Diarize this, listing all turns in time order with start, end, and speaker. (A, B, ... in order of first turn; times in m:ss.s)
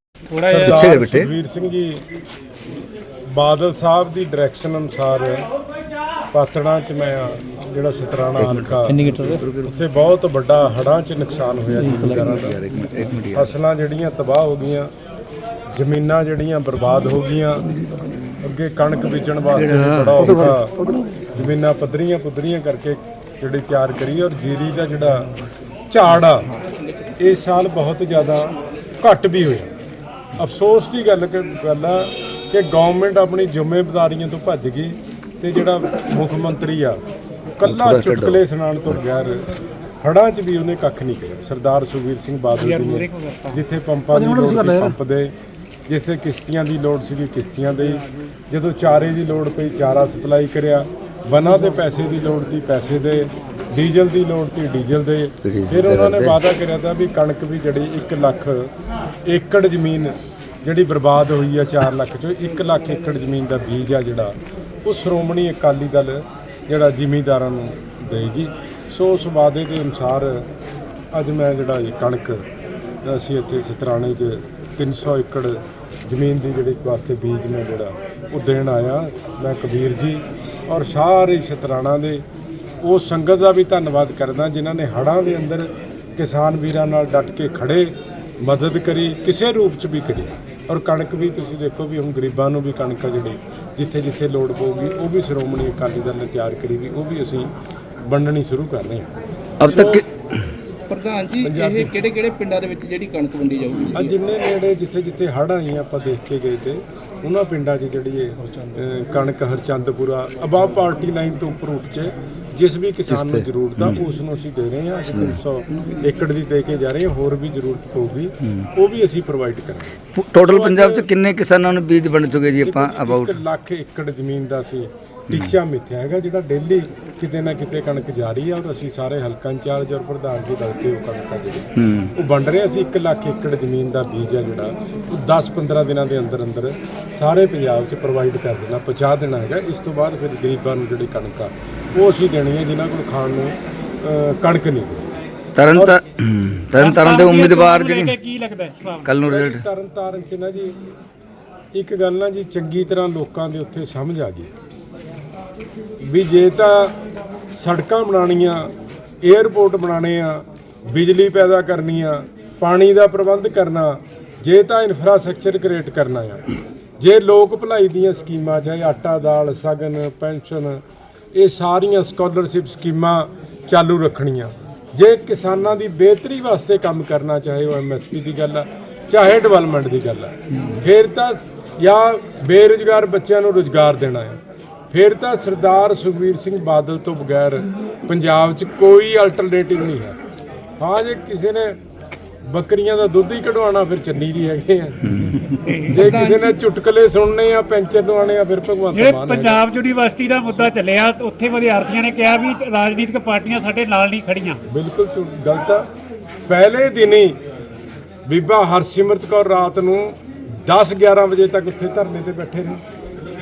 0:00.3-0:00.8 A
0:00.5-0:02.0 B
0:00.6-0:01.3 C
0:03.3-0:05.4 B
0:06.3-0:12.6 B
0:08.4-0:09.7 C
0:11.9-0:13.5 C
0:13.3-0:14.9 B
0:15.7-0:17.6 B
0:18.4-0:20.8 B
0:19.7-0:20.3 C
0:21.3-0:25.3 B
0:25.9-0:26.5 B
0:26.8-0:27.1 D
0:27.2-0:29.7 B
0:30.4-0:37.0 B
0:37.6-0:39.4 B
0:37.6-0:38.4 C
0:40.0-0:45.3 B
0:42.6-0:43.6 A
0:45.9-0:58.7 B
0:55.4-0:56.4 C
0:59.2-1:04.3 B
1:04.8-1:10.4 B
1:11.1-1:12.4 B
1:13.0-1:22.2 B
1:22.8-1:37.5 B
1:38.0-1:39.1 B
1:39.6-1:40.2 C
1:39.6-1:40.0 B
1:40.9-1:44.1 D
1:41.4-1:41.9 B
1:43.9-2:01.0 B
1:53.1-1:54.0 C
1:55.1-1:55.4 C
2:00.1-2:03.4 C
2:02.6-2:25.1 B
2:11.8-2:12.1 C
2:25.6-2:28.2 C
2:26.8-2:29.1 A
2:29.0-2:29.6 C
2:29.2-2:30.7 B
2:31.7-2:34.5 B
2:36.0-2:36.9 B
2:37.6-2:38.7 B
2:39.2-2:46.4 B
2:47.0-2:50.8 B
2:51.3-3:04.4 B
3:04.9-3:10.2 B
3:10.8-3:11.8 B
3:12.5-3:15.0 B
3:15.6-3:16.0 A
3:15.9-3:19.6 B
3:16.0-3:16.5 D
3:18.9-3:24.6 A
3:24.7-3:25.8 B
3:26.5-3:27.4 B
3:28.3-3:32.8 B